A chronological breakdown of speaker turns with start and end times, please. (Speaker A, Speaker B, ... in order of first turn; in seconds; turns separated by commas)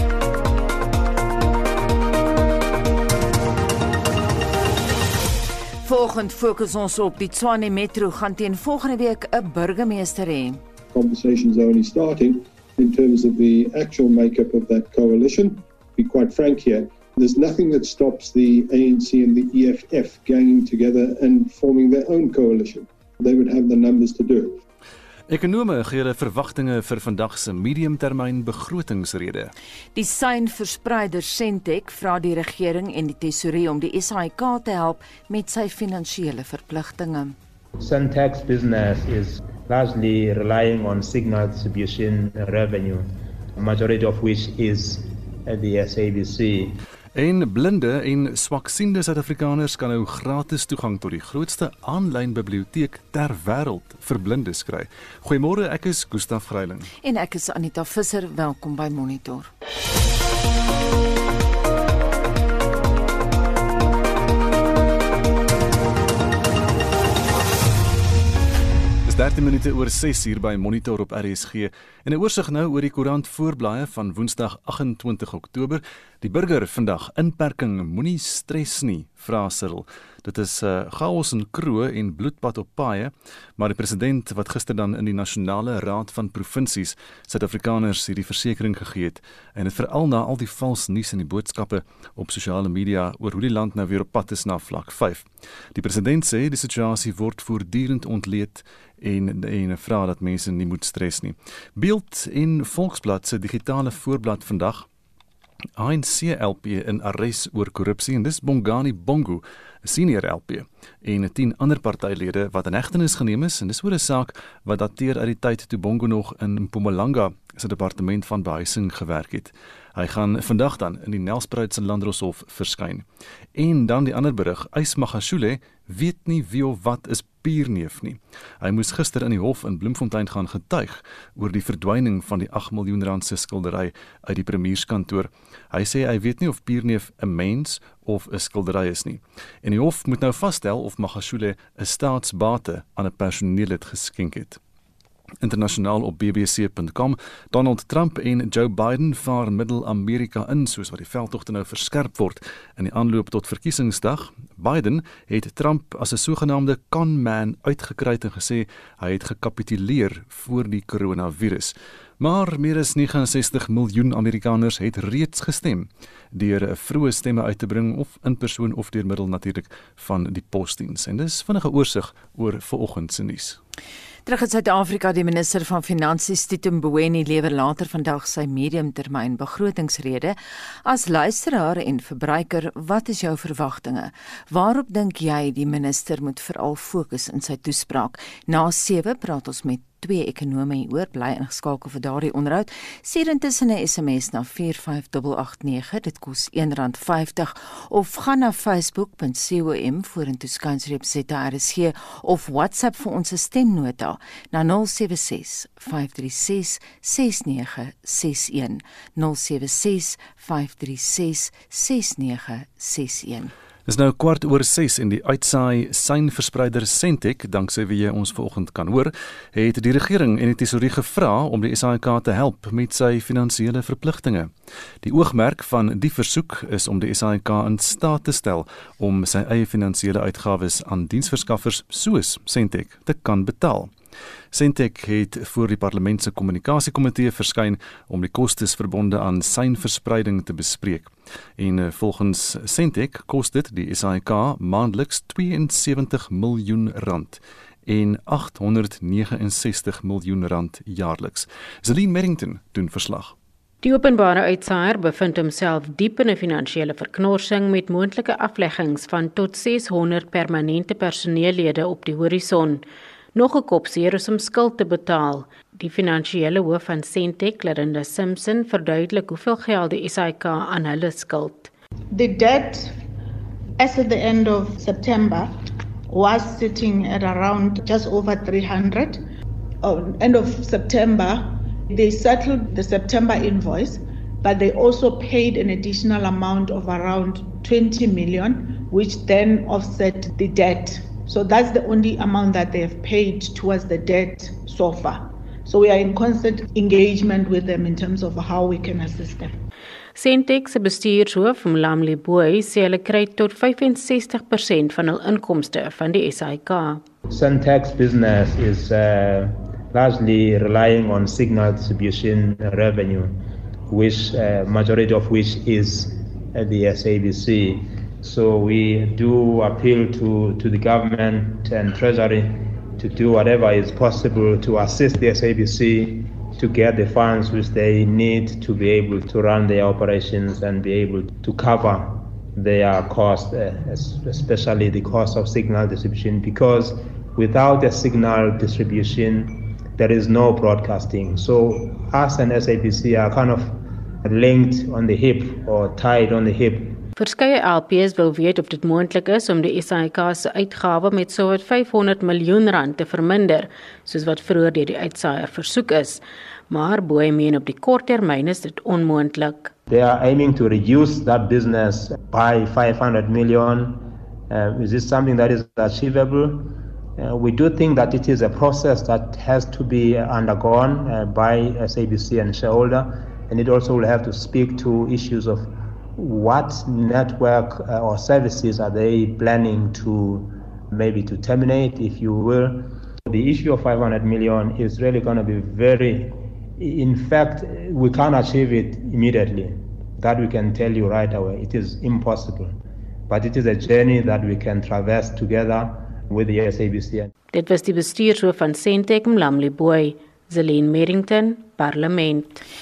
Speaker A: 5.8-10.6, Speaker B: 10.9-24.6, Speaker C: 25.3-29.5, Speaker A: 29.9-37.4, Speaker D: 37.8-46.8, Speaker C: 47.1-56.9, Speaker A: 57.0-59.5, Speaker C: 69.0-104.8, Speaker C: 105.8-123.0, Speaker C: 123.5-144.6, Speaker C: 145.4-173.6, Speaker A: 174.2-213.5, Speaker C: 213.9-224.5, Speaker C: 225.0-233.9, Speaker C: 234.5-253.3, Speaker E: 253.8-262.8, Speaker E: 263.3-271.7, Speaker F: 272.1-273.0, Speaker F: 273.8-279.2, Speaker F: 279.8-299.5, Speaker E: 300.1-307.0, Speaker D: 307.3-313.4, Speaker D: 313.9-347.0, Speaker E: 347.2-359.7, Speaker D: 359.9-392.8, Speaker D: 393.3-397.3, Speaker E: 397.5-402.6